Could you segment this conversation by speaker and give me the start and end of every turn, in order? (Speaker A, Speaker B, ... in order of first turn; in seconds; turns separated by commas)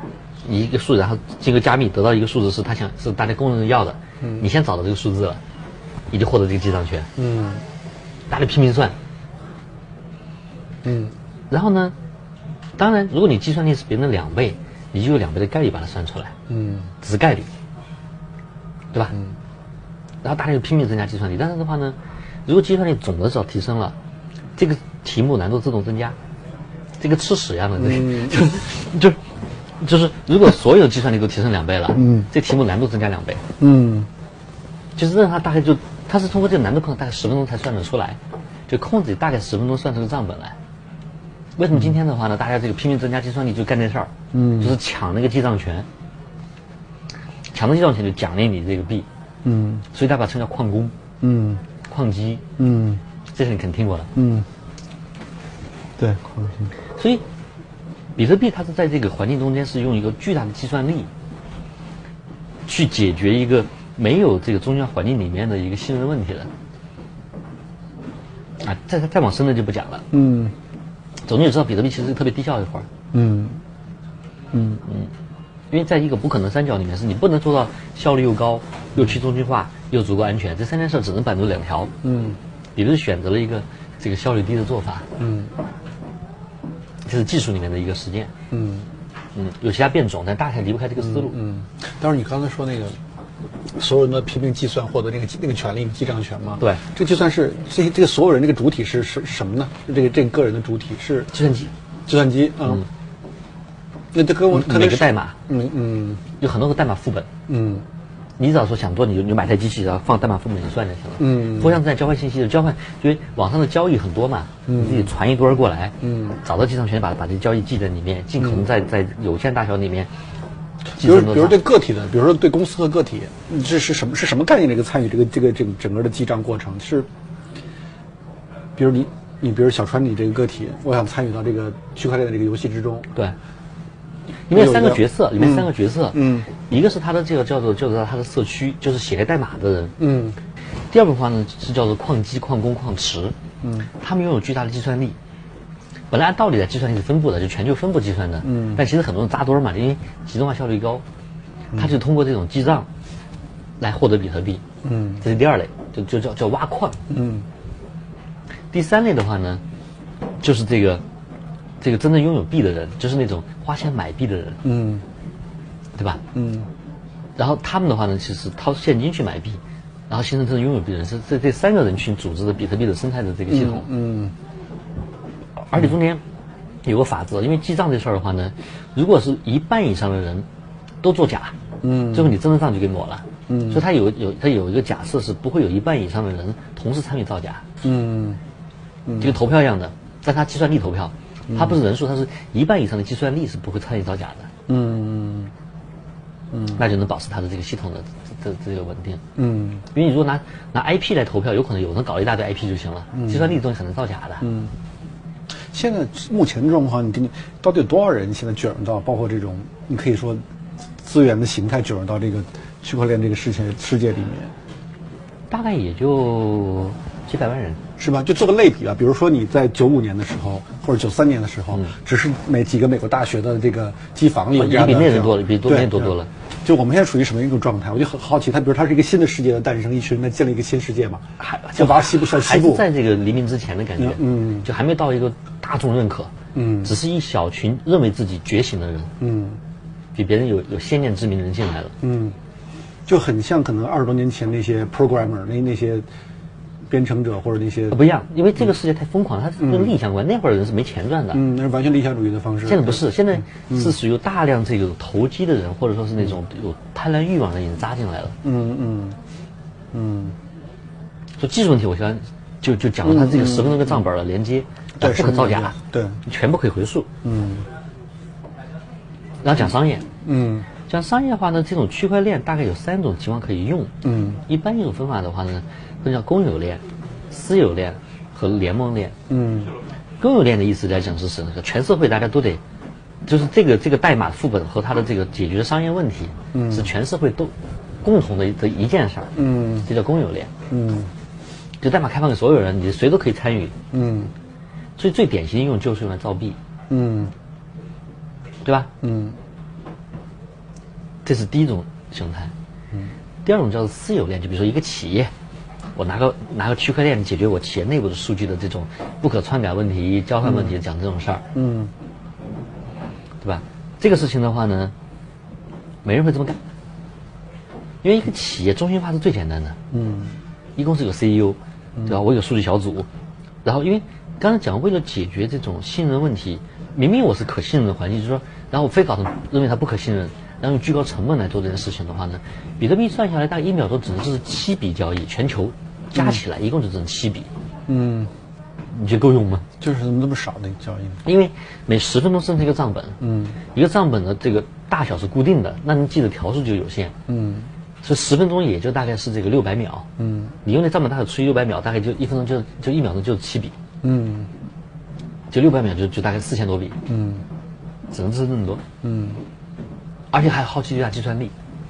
Speaker A: 0.4-5.4, Speaker B: 4.2-4.5, Speaker A: 6.1-7.1, Speaker B: 7.2-7.7, Speaker A: 8.3-8.9, Speaker B: 10.8-11.2, Speaker A: 11.5-11.9, Speaker A: 12.8-16.3, Speaker B: 16.5-16.9, Speaker A: 17.0-17.5, Speaker A: 20.2-24.0, Speaker A: 24.6-26.2, Speaker A: 27.0-29.2, Speaker B: 27.8-28.4, Speaker A: 29.8-33.4, Speaker B: 31.9-32.3, Speaker B: 33.6-34.1, Speaker A: 35.0-40.6, Speaker A: 41.6-45.9, Speaker B: 44.3-44.8, Speaker A: 47.5-49.1, Speaker B: 49.4-49.9, Speaker A: 49.9-50.9, Speaker B: 51.2-51.6, Speaker A: 51.9-52.4, Speaker B: 52.6-53.0, Speaker A: 53.3-54.1, Speaker B: 54.1-54.5, Speaker B: 56.0-56.7, Speaker A: 57.0-57.2, Speaker A: 58.2-61.1, Speaker A: 62.7-66.5, Speaker A: 68.6-70.0, Speaker B: 70.1-70.5, Speaker A: 71.2-72.9, Speaker B: 73.1-73.6, Speaker B: 74.5-74.8, Speaker A: 75.7-81.9, Speaker B: 82.0-82.4, Speaker A: 82.8-85.1, Speaker B: 85.2-85.5, Speaker A: 87.0-88.3, Speaker B: 88.5-88.9, Speaker A: 89.3-91.4, Speaker B: 91.0-93.0, Speaker B: 93.7-101.3, Speaker A: 101.3-101.7, Speaker B: 102.1-102.9, Speaker B: 104.1-106.2, Speaker A: 104.5-105.4, Speaker A: 106.4-107.3, Speaker B: 107.5-107.9, Speaker A: 108.4-120.1, Speaker B: 111.2-111.8, Speaker B: 114.7-115.1, Speaker B: 116.0-116.4, Speaker B: 120.9-127.1, Speaker A: 121.0-121.6, Speaker B: 128.8-133.1, Speaker A: 134.5-139.9, Speaker B: 134.5-136.6, Speaker B: 140.0-140.4, Speaker A: 140.9-143.3, Speaker B: 143.6-143.9, Speaker A: 144.0-145.2, Speaker A: 146.1-151.0, Speaker B: 148.4-148.8, Speaker A: 151.8-152.9, Speaker A: 153.8-154.6, Speaker B: 154.8-155.2, Speaker A: 155.2-157.0, Speaker B: 157.1-157.5, Speaker A: 158.7-159.6, Speaker A: 160.4-161.0, Speaker A: 161.8-164.6, Speaker B: 164.6-165.1, Speaker A: 165.9-166.2, Speaker B: 166.3-166.7, Speaker A: 167.4-173.9, Speaker B: 173.5-174.3, Speaker A: 175.7-176.2, Speaker A: 176.8-180.5, Speaker A: 181.0-181.6, Speaker B: 181.8-182.4, Speaker A: 182.1-187.6, Speaker B: 183.5-183.8, Speaker B: 187.8-188.4, Speaker B: 189.1-189.3, Speaker A: 189.2-194.5, Speaker B: 191.5-191.8, Speaker B: 194.7-195.5, Speaker B: 196.5-196.8, Speaker A: 196.7-199.2, Speaker B: 199.4-199.8, Speaker A: 199.9-204.5, Speaker B: 203.1-203.6, Speaker B: 204.4-204.7, Speaker B: 205.6-210.4, Speaker B: 211.0-214.5, Speaker A: 215.5-217.8, Speaker B: 218.0-232.8, Speaker A: 224.6-226.3, Speaker A: 231.4-236.3, Speaker B: 234.0-234.7, Speaker B: 236.5-236.9, Speaker A: 236.8-239.1, Speaker B: 239.2-239.6, Speaker A: 240.2-241.9, Speaker B: 242.0-242.4, Speaker B: 243.1-246.1, Speaker B: 246.9-248.0, Speaker A: 247.9-251.4, Speaker B: 249.6-250.0, Speaker B: 251.3-253.9, Speaker A: 252.7-258.4, Speaker B: 258.4-259.2, Speaker B: 259.9-260.4, Speaker A: 261.4-265.8, Speaker B: 263.0-264.0, Speaker B: 265.0-266.2, Speaker A: 266.3-267.1, Speaker B: 267.2-267.7, Speaker A: 269.4-270.1, Speaker B: 270.2-270.7, Speaker A: 270.9-273.9, Speaker B: 274.0-274.4, Speaker A: 274.5-279.1, Speaker B: 279.3-279.8, Speaker A: 280.2-282.6, Speaker A: 283.3-290.5, Speaker B: 286.5-286.9, Speaker B: 289.4-289.9, Speaker B: 290.7-291.1, Speaker A: 291.8-293.7, Speaker B: 293.9-294.3, Speaker A: 295.0-296.6, Speaker B: 296.9-297.3, Speaker B: 299.0-299.4, Speaker A: 301.2-302.5, Speaker A: 303.4-305.3, Speaker A: 305.9-311.4, Speaker B: 310.4-310.7, Speaker B: 311.5-311.9, Speaker A: 313.4-314.9, Speaker A: 316.0-316.6, Speaker A: 318.0-319.8, Speaker B: 319.9-320.4, Speaker A: 320.8-323.1, Speaker A: 323.6-337.5, Speaker B: 336.1-336.4, Speaker B: 337.9-338.3, Speaker A: 338.9-339.7, Speaker B: 339.8-341.2, Speaker A: 341.2-343.2, Speaker B: 343.2-343.6, Speaker A: 343.7-347.1, Speaker B: 347.3-347.7, Speaker A: 348.0-350.1, Speaker B: 350.2-350.6, Speaker A: 350.6-353.7, Speaker B: 354.0-354.5, Speaker A: 355.5-357.0, Speaker B: 357.1-357.4, Speaker A: 358.1-358.8, Speaker B: 359.0-359.4, Speaker A: 360.3-361.5